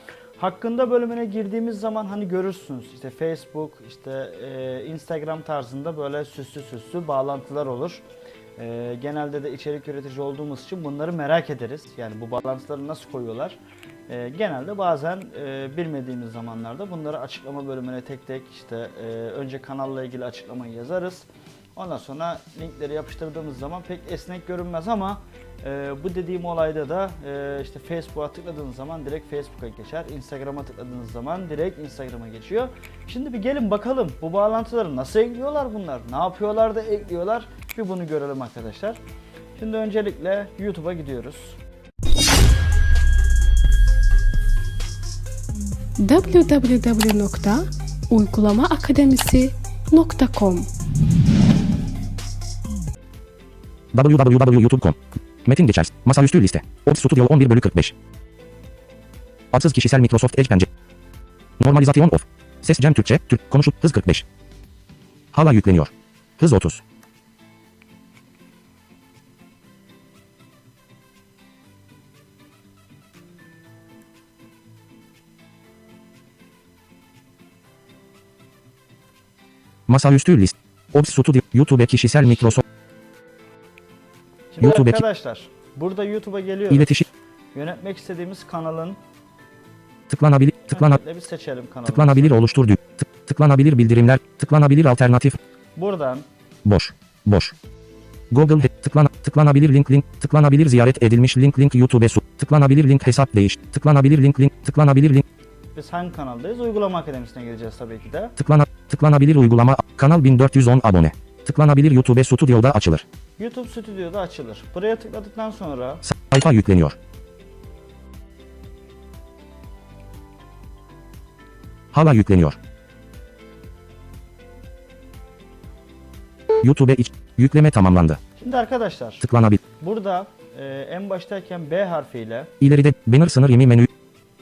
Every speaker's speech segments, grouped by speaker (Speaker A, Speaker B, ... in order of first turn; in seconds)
Speaker A: 0.4-8.0, 8.6-39.0, 39.6-41.6, 84.5-89.0, 90.7-92.4, 95.8-96.3, 105.8-108.3, 113.4-116.0, 128.4-129.3, 129.8-132.5
Speaker B: 46.0-50.7
Speaker C: 53.9-58.0, 59.5-60.7, 61.6-64.3, 65.3-66.8, 79.9-82.6, 84.6-85.0, 86.7-87.1, 90.1-91.0, 91.9-95.4, 96.7-97.5, 98.3-105.3, 108.4-113.0, 116.0-117.0, 121.9-122.6, 126.6-128.2, 129.2-129.6, 132.6-133.9